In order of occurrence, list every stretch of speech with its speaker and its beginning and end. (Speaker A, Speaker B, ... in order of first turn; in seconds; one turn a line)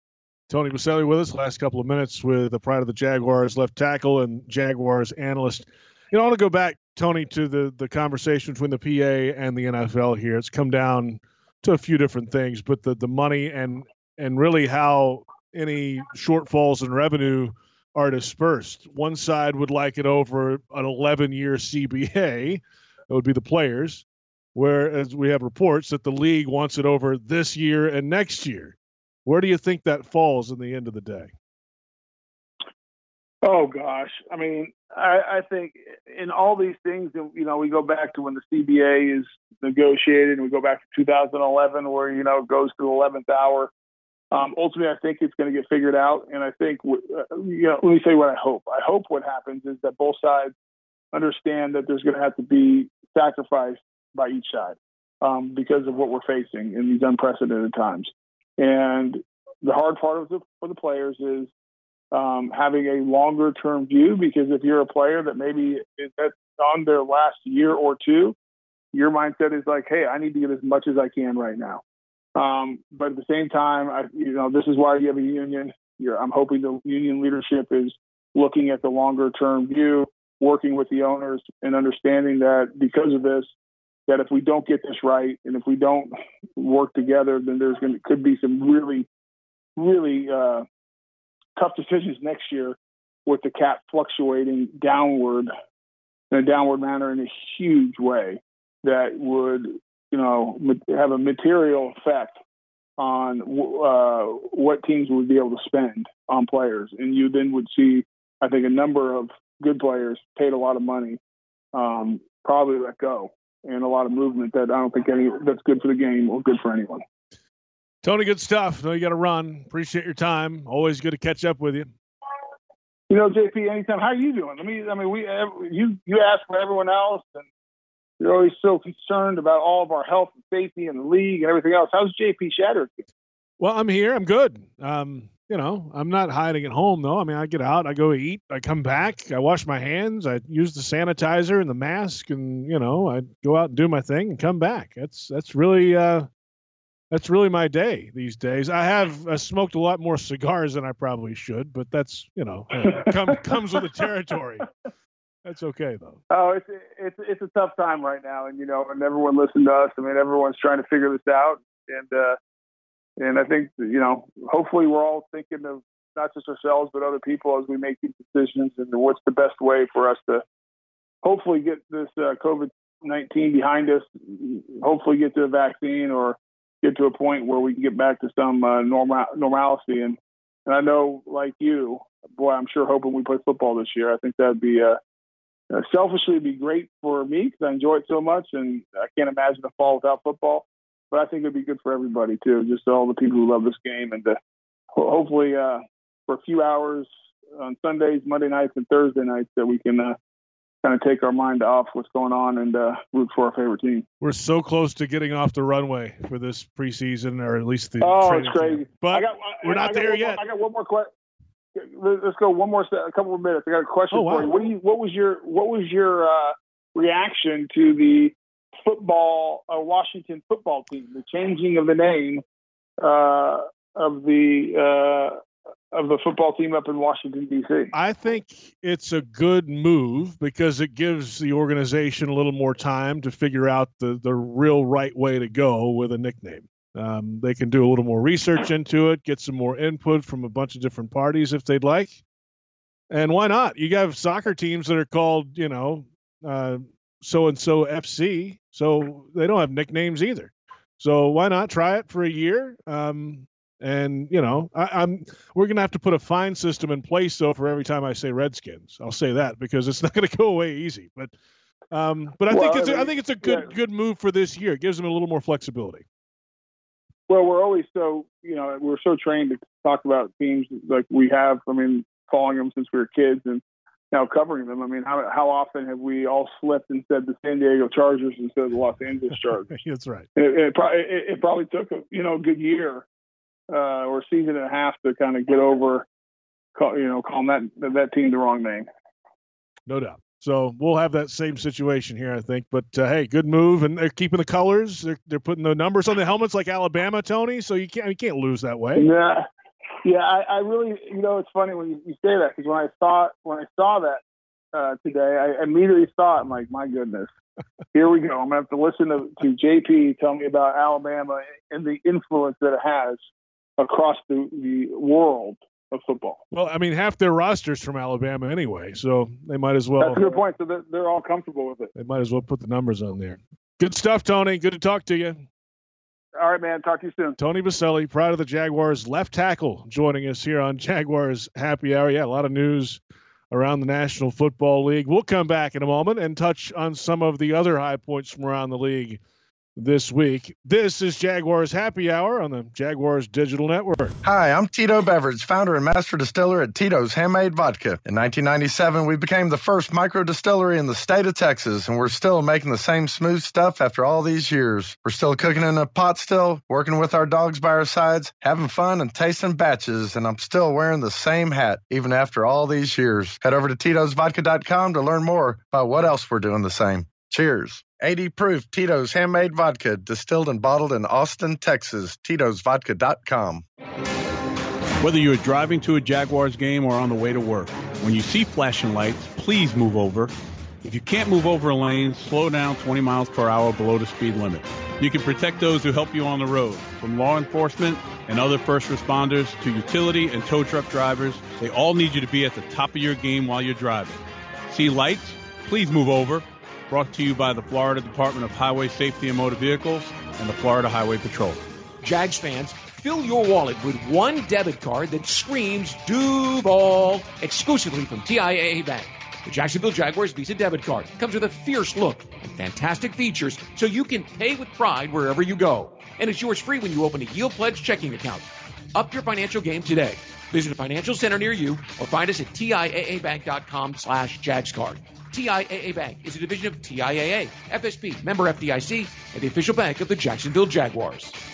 Speaker A: 0.5-24.0
Speaker A: 24.6-31.3
Speaker B: 33.4-43.7
Speaker B: 44.3-50.5
Speaker B: 51.1-61.5
Speaker B: 62.1-68.3
Speaker B: 68.9-71.8
Speaker B: 72.4-83.5
Speaker B: 84.1-89.1
Speaker B: 89.8-90.7
Speaker B: 91.6-95.5
Speaker B: 96.3-102.4
Speaker B: 103.0-111.2
Speaker B: 111.7-117.0
Speaker A: 118.0-121.9
Speaker B: 123.1-127.5
Speaker B: 128.2-133.1
Speaker A: 133.6-146.3
Speaker A: 147.1-154.7
Speaker A: 155.4-156.2
Speaker B: 156.3-162.4
Speaker B: 163.2-170.4
Speaker B: 171.2-185.0
Speaker B: 185.7-194.4
Speaker B: 195.0-200.2
Speaker B: 200.8-204.1
Speaker A: 204.2-210.4
Speaker B: 208.0-211.1
Speaker B: 211.8-222.4
Speaker A: 214.1-214.6
Speaker B: 223.0-225.4
Speaker B: 225.9-227.9
Speaker A: 227.9-242.2
Speaker A: 243.1-261.3
Speaker A: 261.9-266.0
Speaker B: 262.5-263.7
Speaker B: 267.3-279.7
Speaker A: 279.7-280.3
Speaker B: 280.4-283.1
Speaker B: 283.7-286.1
Speaker B: 286.8-288.9
Speaker A: 289.9-299.1
Speaker B: 299.0-299.4
Speaker B: 300.0-304.2
Speaker B: 304.7-307.3
Speaker B: 307.9-313.2
Speaker B: 313.8-316.4
Speaker A: 316.5-320.2
Speaker B: 320.0-321.9
Speaker A: 321.9-325.4
Speaker B: 326.4-327.4
Speaker A: 327.4-339.2
Speaker A: 339.8-344.2
Speaker C: 344.2-373.6
Speaker D: 375.0-380.3
Speaker D: 380.8-401.6
Speaker E: 402.0-431.4